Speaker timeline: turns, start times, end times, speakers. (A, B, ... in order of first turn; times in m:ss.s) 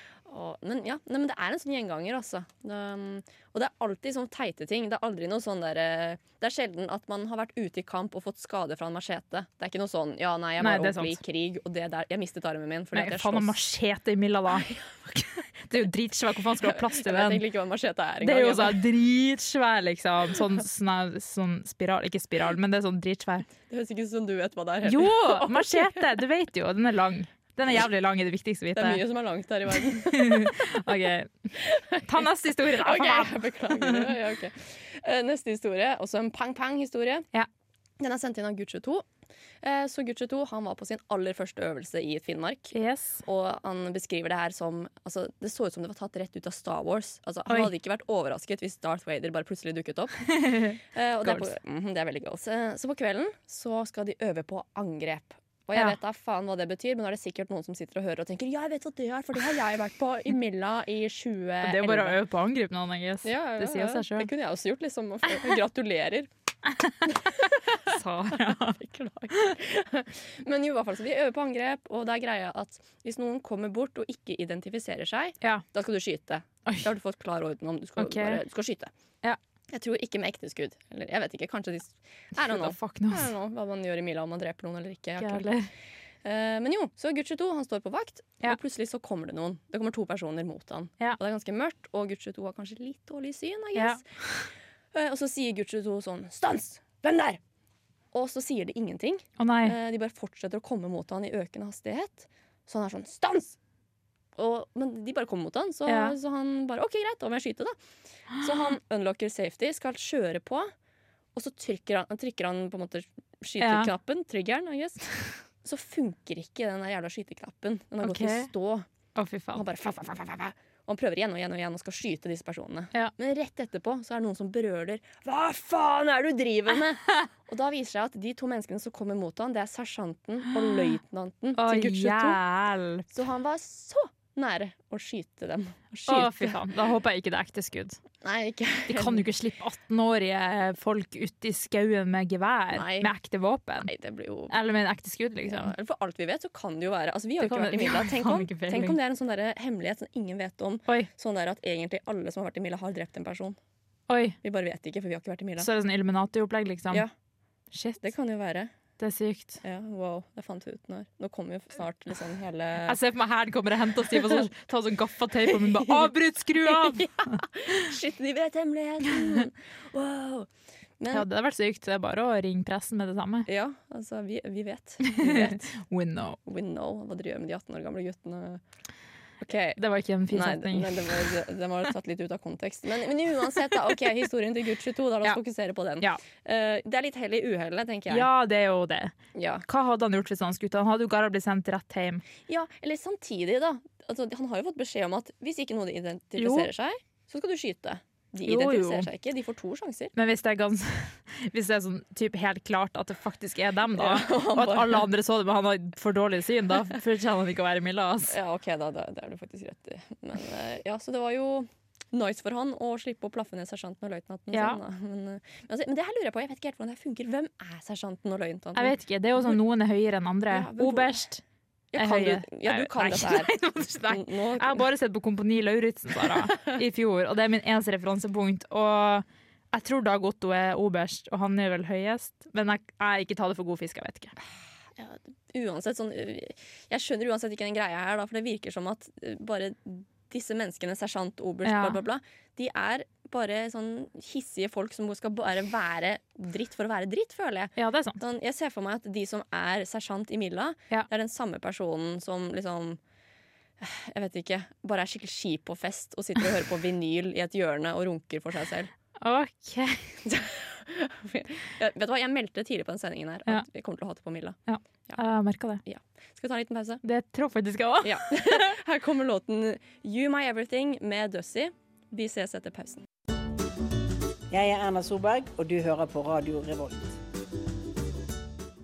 0:00.3-0:13.5 A
0:10.6-0:11.2 B
0:12.9-0:17.4 B
0:16.6-0:18.8 A
0:18.2-0:23.5 B
0:23.7-0:26.0 A
0:24.9-0:29.0 B
0:28.8-0:30.8 A
0:29.9-0:31.3 B
0:31.6-0:37.3 A
0:32.1-0:34.1 B
0:38.0-0:39.1 A
0:39.6-1:02.2 A
0:42.7-0:43.2 B
0:50.4-0:51.5 B
1:01.6-1:04.3 B
1:03.2-1:06.3 A
1:07.1-1:18.9 A
1:07.9-1:08.8 B
1:18.0-1:18.4 B
1:19.7-1:25.5 A
1:22.4-1:23.3 B
1:25.2-1:25.7 B
1:26.2-1:34.0 A
1:33.8-1:34.0 B
1:34.9-1:37.4 A
1:38.1-1:43.6 A
1:39.4-1:39.8 B
1:44.4-1:47.8 A
1:45.9-1:46.2 B
1:48.3-1:50.7 A
1:51.4-1:58.9 A
1:53.6-1:53.9 B
1:58.0-1:58.5 B
1:59.2-1:59.6 B
1:59.5-2:12.4 A
2:11.6-2:13.0 B
2:13.1-2:16.6 A
2:16.1-2:18.0 B
2:18.2-2:19.3 A
2:18.9-2:23.9 B
2:22.7-2:23.1 A
2:23.8-2:24.6 A
2:24.5-2:25.7 B
2:25.4-2:33.6 A
2:27.4-2:29.0 B
2:34.1-2:34.4 B
2:34.4-2:35.7 A
2:35.6-2:37.0 B
2:37.7-2:38.0 B
2:38.0-2:38.7 A
2:39.0-2:39.6 B
2:39.6-2:43.0 A
2:42.9-2:47.4 B
2:45.5-2:46.1 A
2:46.6-2:50.5 A
2:51.0-2:51.3 A
2:51.1-2:53.5 B
2:53.5-2:55.7 A
2:55.1-2:56.4 B
2:56.5-2:58.6 A
2:59.4-3:08.3 A
2:59.8-3:01.3 B
3:08.1-3:09.2 B
3:09.4-3:09.6 A
3:09.7-3:12.2 B
3:12.5-3:20.1 A
3:16.4-3:16.7 B
3:18.5-3:19.1 B
3:20.2-3:28.3 B
3:24.0-3:25.1 A
3:28.3-3:39.6 A
3:34.5-3:34.8 B
3:38.8-3:41.4 B
3:40.5-3:41.2 A
3:41.9-3:43.5 A
3:42.0-3:54.3 B
3:44.1-3:44.8 A
3:55.0-4:13.0 A
4:01.6-4:02.0 B
4:07.8-4:08.2 B
4:13.8-4:18.9 A
4:19.2-4:20.2 B
4:20.3-4:25.2 A
4:24.7-4:25.8 B
4:25.8-4:27.0 A
4:27.0-4:28.6 B
4:28.0-4:33.0 A
4:34.5-4:37.2 C